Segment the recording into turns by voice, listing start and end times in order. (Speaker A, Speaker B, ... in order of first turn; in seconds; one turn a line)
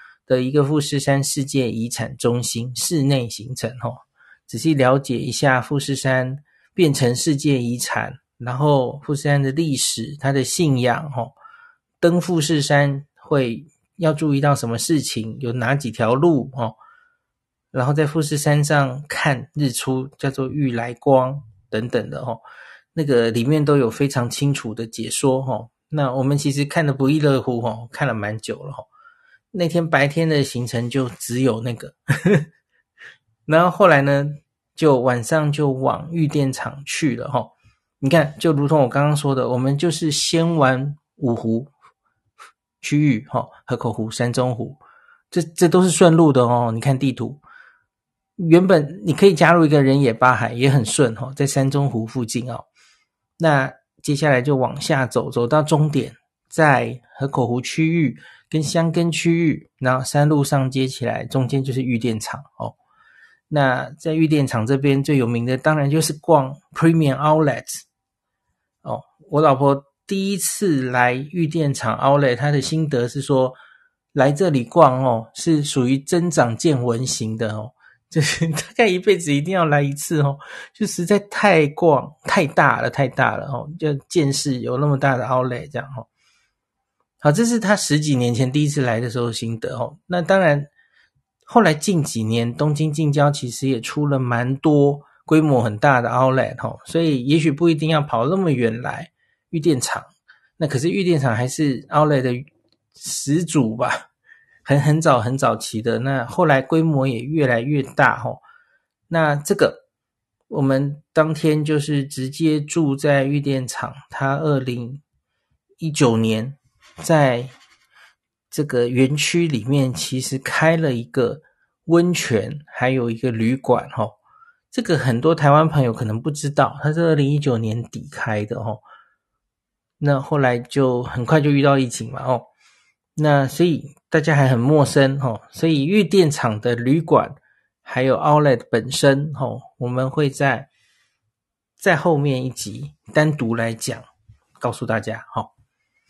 Speaker A: 0.3-11.3
Speaker A: 12.0-16.7
Speaker A: 17.7-22.4
Speaker A: 22.9-28.9
Speaker A: 29.5-32.5
Speaker A: 33.5-41.7
Speaker A: 42.8-44.8
Speaker A: 45.3-47.4
Speaker A: 48.4-52.6
Speaker A: 53.4-62.7
Speaker A: 63.5-67.8
Speaker A: 68.8-73.6
Speaker A: 74.1-86.1
Speaker A: 87.2-90.7
Speaker A: 91.5-104.0
Speaker A: 104.6-108.4
Speaker A: 109.1-109.8
Speaker A: 110.5-115.0
Speaker A: 115.8-117.5
Speaker A: 118.5-124.1
Speaker A: 124.7-128.8
Speaker A: 130.0-132.5
Speaker A: 133.2-140.7
Speaker A: 141.8-144.1
Speaker A: 144.6-145.5